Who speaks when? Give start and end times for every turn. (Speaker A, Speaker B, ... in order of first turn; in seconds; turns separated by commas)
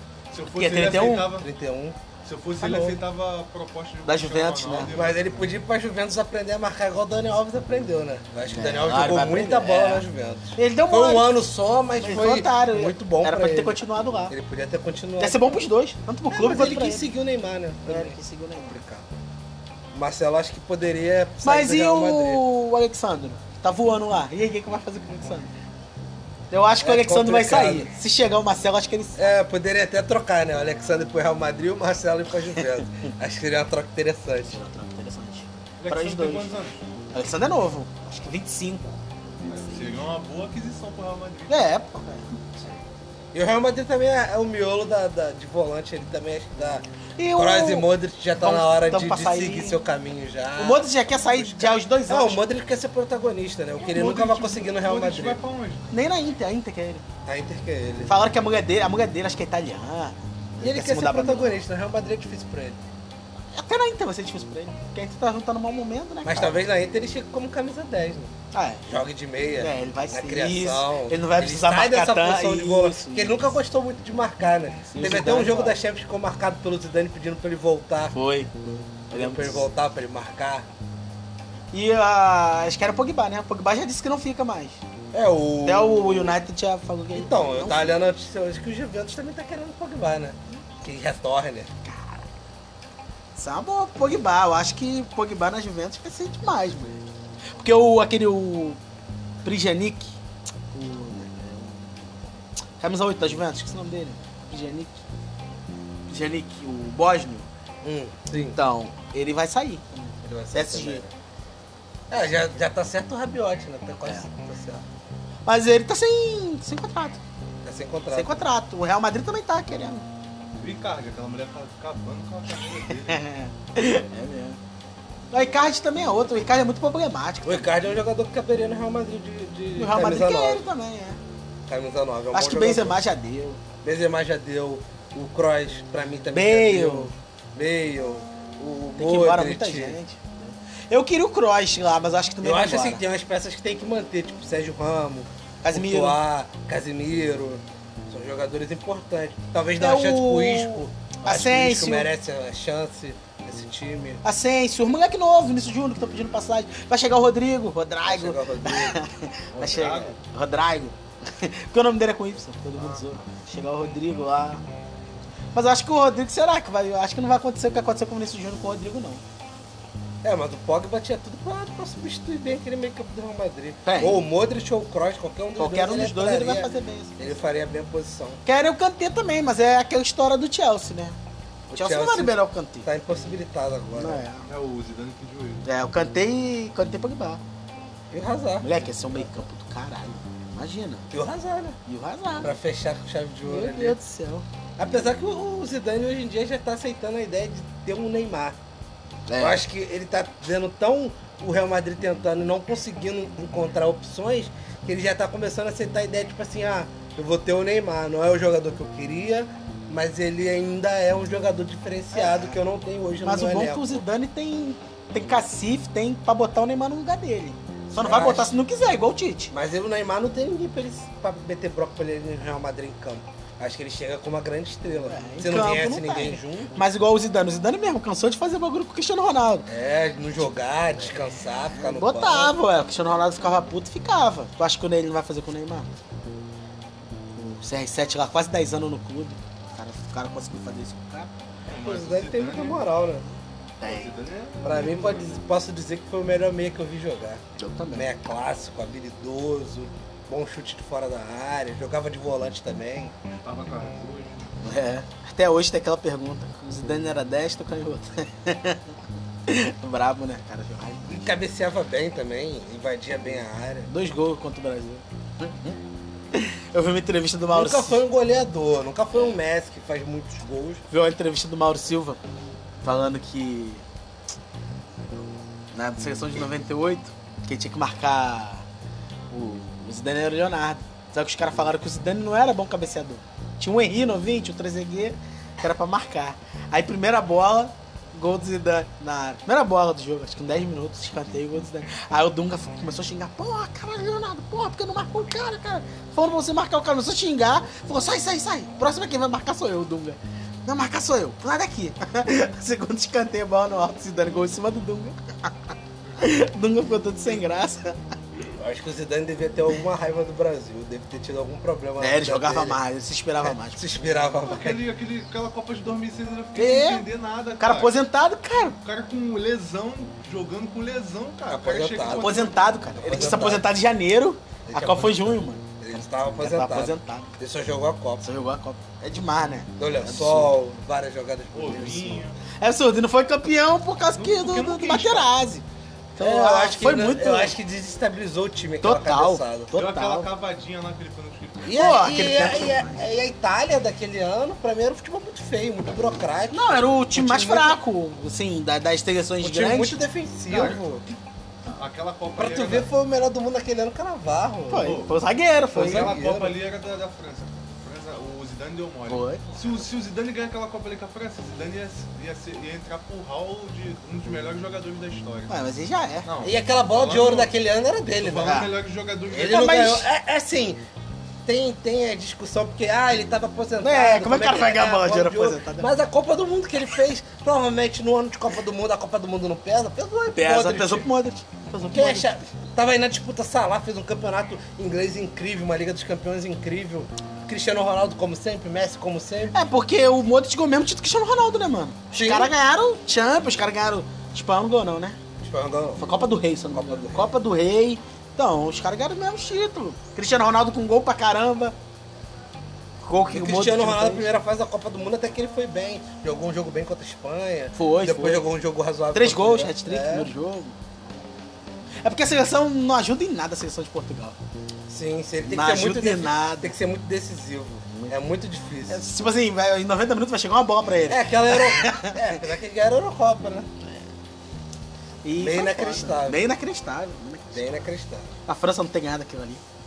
Speaker A: 0.3-1.5, Speaker B: 0.5-1.4, Speaker C: 1.4-2.0, Speaker A: 2.2-5.4, Speaker B: 2.6-3.0, Speaker B: 4.0-4.9, Speaker C: 4.9-15.6, Speaker B: 8.5-10.0, Speaker B: 10.6-11.4, Speaker B: 12.0-14.3, Speaker B: 15.2-17.1, Speaker C: 16.3-19.1, Speaker B: 17.9-18.8, Speaker C: 19.9-22.4, Speaker B: 21.4-25.5, Speaker B: 26.5-29.4, Speaker C: 26.8-27.9, Speaker C: 29.1-34.6, Speaker B: 34.5-36.5, Speaker A: 35.8-36.8, Speaker B: 37.1-40.1, Speaker A: 39.5-41.7, Speaker B: 41.5-42.3, Speaker C: 43.3-55.4, Speaker B: 47.2-49.8, Speaker B: 50.6-52.4, Speaker A: 53.8-55.9, Speaker B: 55.9-57.0, Speaker C: 57.2-58.2, Speaker B: 58.0-61.6, Speaker C: 60.6-62.8, Speaker B: 63.5-66.6, Speaker C: 66.2-68.3, Speaker B: 68.5-68.9, Speaker C: 68.9-78.1, Speaker B: 69.6-73.4, Speaker B: 74.9-75.8, Speaker B: 78.1-78.5, Speaker B: 79.1-79.7, Speaker C: 79.1-80.7, Speaker B: 81.7-84.8, Speaker C: 85.1-86.4, Speaker B: 85.6-88.0, Speaker C: 87.1-91.7, Speaker B: 91.8-92.3, Speaker B: 93.3-98.8, Speaker B: 99.4-100.1, Speaker B: 100.7-102.2, Speaker B: 102.8-105.0, Speaker B: 106.1-107.5, Speaker C: 107.8-108.6, Speaker B: 108.5-111.0, Speaker C: 110.2-111.1, Speaker C: 112.1-114.8, Speaker B: 115.5-117.2, Speaker C: 117.6-118.4, Speaker B: 118.1-120.1, Speaker A: 120.5-123.2, Speaker B: 122.7-124.6, Speaker B: 125.3-127.9, Speaker C: 127.4-130.6, Speaker B: 129.8-131.2, Speaker C: 131.7-133.0, Speaker B: 132.3-133.6, Speaker C: 133.8-140.0, Speaker B: 136.3-137.1, Speaker B: 138.9-143.0, Speaker C: 142.4-154.2, Speaker B: 145.6-146.2, Speaker B: 149.8-152.1, Speaker B: 154.2-164.6, Speaker C: 158.0-159.0, Speaker A: 159.5-160.2, Speaker A: 162.8-163.0, Speaker B: 165.5-169.2, Speaker C: 170.2-178.4, Speaker B: 173.8-174.2, Speaker B: 175.6-177.4, Speaker B: 178.4-181.2, Speaker C: 181.7-184.2, Speaker B: 181.7-182.9, Speaker B: 183.9-184.5, Speaker A: 184.4-185.7, Speaker B: 185.6-187.4, Speaker C: 188.1-188.9, Speaker B: 188.6-191.1, Speaker C: 191.1-191.8, Speaker B: 191.8-192.5, Speaker C: 192.4-194.0, Speaker B: 193.4-194.4, Speaker C: 194.8-198.6, Speaker B: 199.3-199.6, Speaker C: 199.4-214.0, Speaker B: 212.1-212.6, Speaker B: 213.2-219.5, Speaker C: 217.9-218.5, Speaker C: 219.5-226.8, Speaker B: 225.1-229.7, Speaker C: 229.7-232.5, Speaker B: 231.7-235.9, Speaker B: 237.3-241.3, Speaker A: 241.7-242.8, Speaker C: 241.8-243.2, Speaker B: 243.8-244.1, Speaker A: 243.8-245.4, Speaker C: 244.6-247.4, Speaker B: 247.6-248.1, Speaker C: 247.9-253.1, Speaker A: 253.4-254.5, Speaker B: 254.6-258.9, Speaker B: 259.4-261.3, Speaker C: 261.1-263.9, Speaker B: 263.9-265.8, Speaker B: 266.3-268.0, Speaker C: 267.5-270.8, Speaker B: 270.9-272.2, Speaker B: 272.8-273.8, Speaker B: 275.7-278.6, Speaker B: 279.3-308.1, Speaker C: 308.6-312.8, Speaker B: 312.0-313.8, Speaker C: 313.4-314.8, Speaker A: 314.4-318.0, Speaker B: 316.5-317.1, Speaker B: 317.6-318.8, Speaker A: 318.8-323.1, Speaker C: 321.5-322.4, Speaker B: 322.1-325.6, Speaker C: 323.0-323.7, Speaker C: 324.6-328.2, Speaker B: 326.4-327.3, Speaker B: 328.2-330.5, Speaker C: 329.8-332.2, Speaker A: 331.5-332.4, Speaker B: 332.6-335.6, Speaker A: 334.1-335.3, Speaker B: 336.1-337.6, Speaker C: 336.2-339.7, Speaker B: 338.8-340.3, Speaker A: 339.7-342.1, Speaker C: 341.6-347.8, Speaker B: 341.7-343.0, Speaker B: 346.5-350.0, Speaker C: 349.4-351.0, Speaker A: 350.5-350.8, Speaker A: 351.7-352.9, Speaker C: 352.4-354.9, Speaker B: 354.7-356.2, Speaker A: 354.8-355.1, Speaker C: 355.7-356.5, Speaker A: 355.7-365.6, Speaker B: 359.1-359.7, Speaker B: 365.5-366.3, Speaker A: 366.2-367.5, Speaker C: 366.4-368.6, Speaker A: 368.1-370.0, Speaker B: 368.4-368.7, Speaker C: 369.3-370.8, Speaker B: 369.4-370.1, Speaker C: 371.4-381.1, Speaker B: 373.8-375.9, Speaker B: 380.3-382.4, Speaker C: 381.9-389.5, Speaker B: 389.5-395.2, Speaker C: 392.1-392.5, Speaker C: 395.4-396.1, Speaker B: 396.0-401.7, Speaker C: 396.7-397.3, Speaker B: 403.0-404.3, Speaker C: 403.3-410.3, Speaker B: 407.7-408.5, Speaker B: 409.1-410.8, Speaker B: 412.0-414.4, Speaker C: 414.9-419.0, Speaker B: 415.4-416.7, Speaker B: 418.9-422.4, Speaker C: 421.1-423.7, Speaker B: 425.2-427.6, Speaker C: 425.4-426.4, Speaker C: 427.5-428.3, Speaker B: 428.5-429.6